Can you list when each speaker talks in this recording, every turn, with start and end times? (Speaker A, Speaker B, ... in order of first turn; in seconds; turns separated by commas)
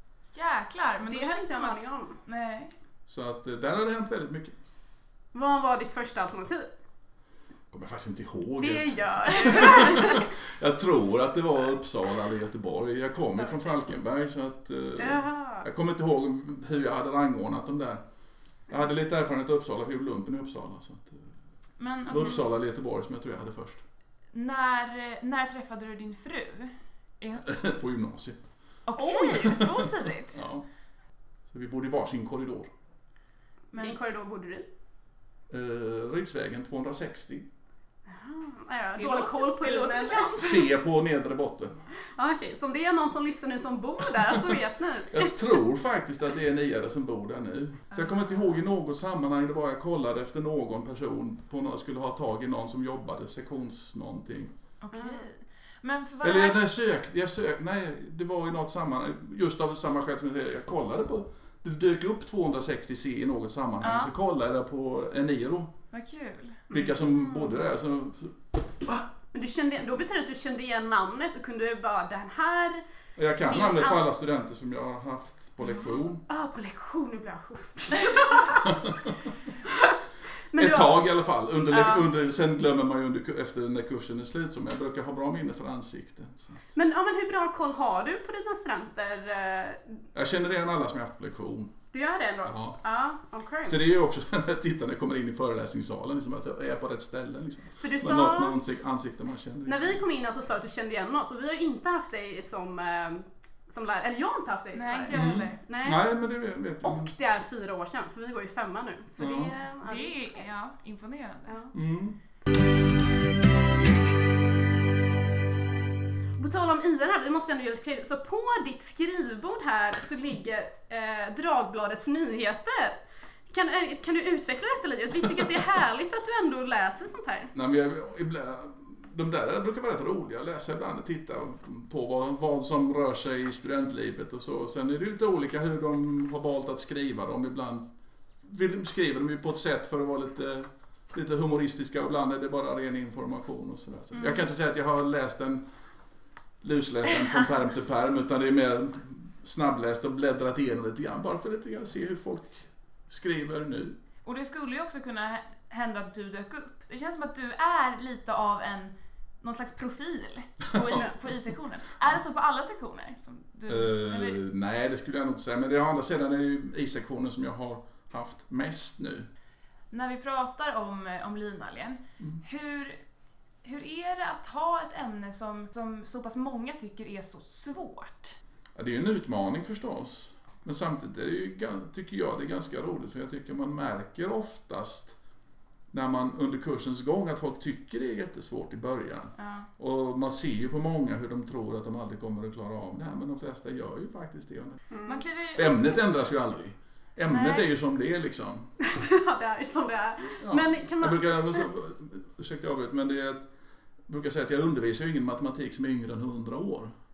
Speaker A: 0.3-2.7, Speaker B: 1.0-2.2, Speaker C: 3.1-4.5, Speaker B: 5.3-6.7, Speaker C: 7.7-18.0, Speaker B: 8.6-10.3, Speaker B: 15.0-15.7, Speaker C: 18.7-21.3, Speaker A: 21.8-22.4, Speaker C: 22.1-23.8, Speaker A: 24.3-27.4, Speaker C: 27.4-28.5, Speaker A: 28.9-30.4, Speaker B: 29.0-29.6, Speaker C: 30.3-30.6, Speaker C: 31.5-32.7, Speaker A: 33.7-34.0, Speaker B: 33.8-34.7, Speaker C: 35.5-37.5, Speaker B: 38.1-40.7, Speaker A: 38.9-40.3, Speaker C: 40.4-41.8, Speaker B: 42.2-45.4, Speaker C: 45.1-54.5, Speaker A: 47.9-48.3, Speaker A: 54.8-56.6, Speaker B: 54.9-55.2, Speaker C: 56.2-65.7, Speaker A: 63.8-64.1, Speaker A: 65.9-66.6, Speaker B: 66.7-67.6, Speaker C: 66.7-69.1, Speaker B: 69.3-72.8, Speaker C: 73.2-76.2, Speaker B: 73.4-74.0, Speaker B: 76.3-78.9, Speaker C: 78.7-79.1, Speaker B: 79.7-80.0, Speaker B: 80.5-81.0, Speaker C: 80.6-86.6, Speaker B: 81.7-82.1, Speaker B: 86.8-90.0, Speaker C: 90.1-91.8, Speaker B: 91.9-93.8, Speaker C: 92.5-92.8, Speaker C: 93.7-100.0, Speaker B: 97.8-98.6, Speaker B: 99.7-106.0, Speaker A: 104.7-105.6, Speaker C: 105.1-107.1, Speaker B: 106.8-110.4, Speaker C: 109.2-109.5, Speaker A: 109.8-111.6, Speaker B: 111.5-111.7, Speaker C: 111.7-112.2, Speaker B: 116.4-123.0, Speaker B: 123.5-127.5, Speaker C: 127.5-137.8, Speaker C: 138.4-145.6, Speaker A: 144.1-144.4, Speaker C: 146.6-154.0, Speaker A: 154.2-164.4, Speaker C: 160.8-161.1, Speaker C: 163.7-169.3, Speaker A: 169.9-173.0, Speaker A: 173.6-178.3, Speaker C: 178.8-185.2, Speaker C: 185.9-194.8, Speaker A: 189.4-189.7, Speaker B: 194.9-195.2, Speaker A: 195.1-195.9, Speaker C: 195.6-198.7, Speaker A: 197.2-197.7, Speaker B: 198.8-201.7, Speaker C: 200.4-203.5, Speaker C: 204.1-206.9